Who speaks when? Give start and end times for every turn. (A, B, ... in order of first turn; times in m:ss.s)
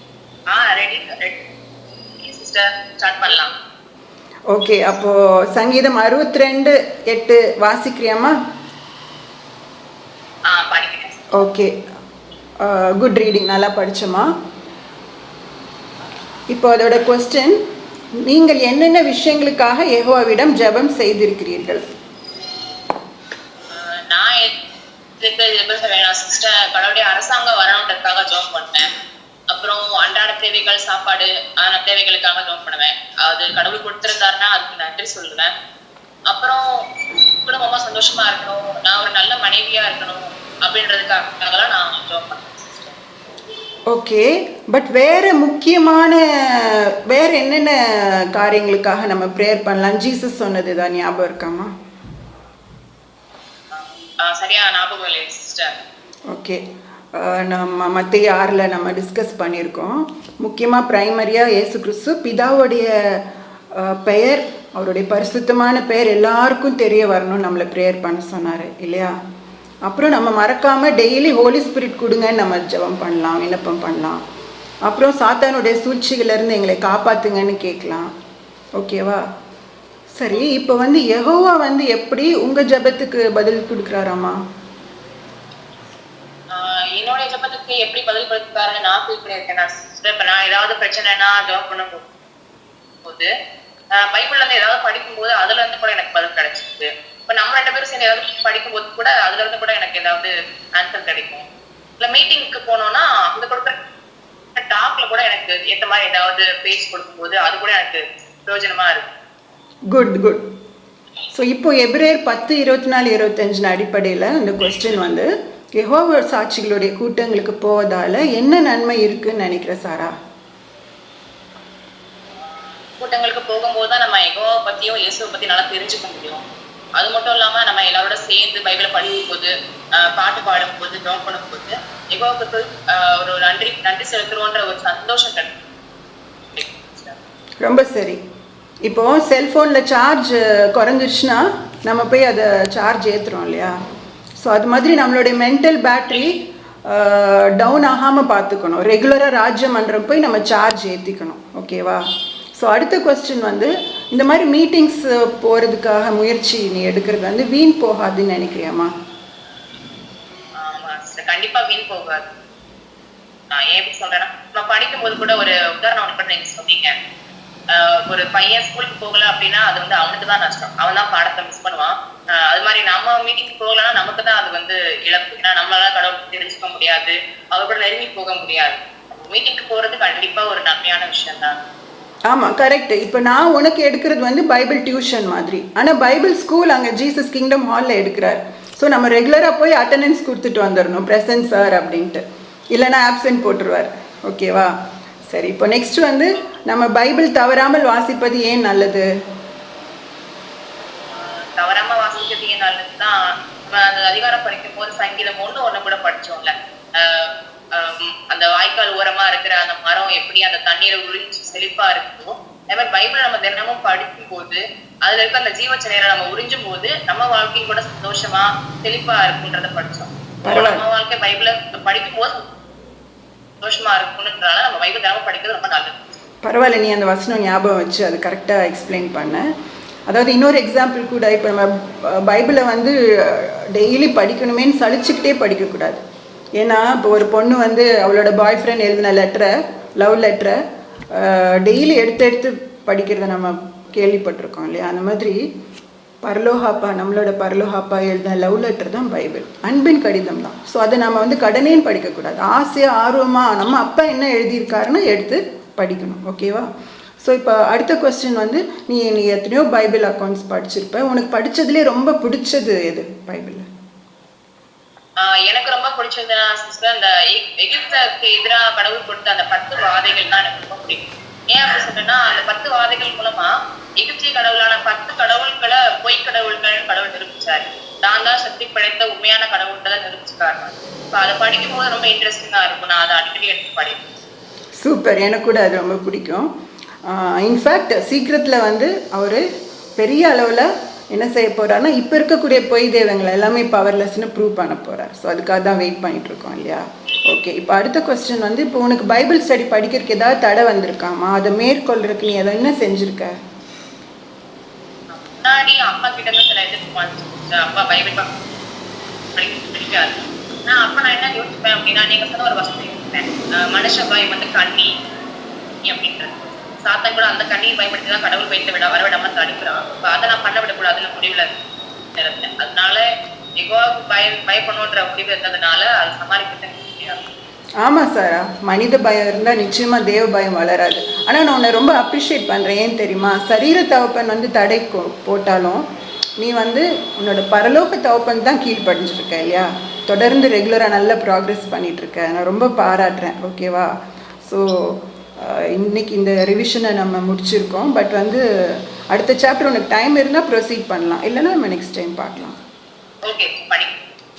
0:00.5-0:01.4 A
0:02.2-0:03.5 A
0:04.5-0:08.3 B
0:10.5-0:11.3 A
0:11.3-0:11.7 B
0:12.6-0:14.2 B
0:16.5-0:17.6 B
0:18.2-0:21.8 B
0:23.7-0:24.5 A
0:25.2-0:28.9 A
0:29.5-0:35.5 A
0:36.3-0:36.6 A
0:37.3-0:43.0 A
0:43.9-0:51.7 B
0:53.7-0:55.8 A
0:56.3-0:56.6 B
0:57.1-1:02.9 B
1:03.7-1:09.1 B
1:09.8-1:14.2 B
1:14.8-1:18.1 B
1:18.8-1:19.2 B
1:20.2-1:24.4 B
1:26.5-1:32.1 A
1:33.0-1:33.3 A
1:33.9-1:41.4 A
1:42.0-1:43.8 A
1:44.6-1:49.1 A
1:49.9-1:50.4 B
1:51.3-2:00.1 B
2:02.4-2:06.4 A
2:07.0-2:15.6 A
2:16.5-2:17.2 A
2:17.6-2:18.2 B
2:18.8-2:23.7 B
2:24.4-2:32.0 B
2:32.6-2:38.9 B
2:40.6-2:42.3 A
2:43.5-2:46.9 A
2:47.7-3:01.6 A
3:02.3-3:12.2 B
3:12.7-3:14.7 B
3:15.3-3:19.0 B
3:21.1-3:42.4 A
3:40.4-3:40.8 B
3:43.6-3:46.2 A
3:46.4-3:49.4 B
3:50.1-3:56.0 B
3:56.6-4:00.6 B
4:01.1-4:05.4 B
4:06.2-4:16.6 B
4:17.2-4:23.6 B
4:25.2-4:44.0 A
4:44.8-4:46.5 B
4:47.1-4:49.4 B
4:50.0-5:03.3 B
5:05.1-5:08.3 A
5:09.3-5:14.9 A
5:15.8-5:21.5 A
5:22.2-5:23.0 A
5:23.6-5:27.2 A
5:27.8-5:35.8 B
5:36.4-5:43.9 B
5:44.4-5:48.4 B
5:49.1-5:52.6 B
5:53.2-5:53.9 A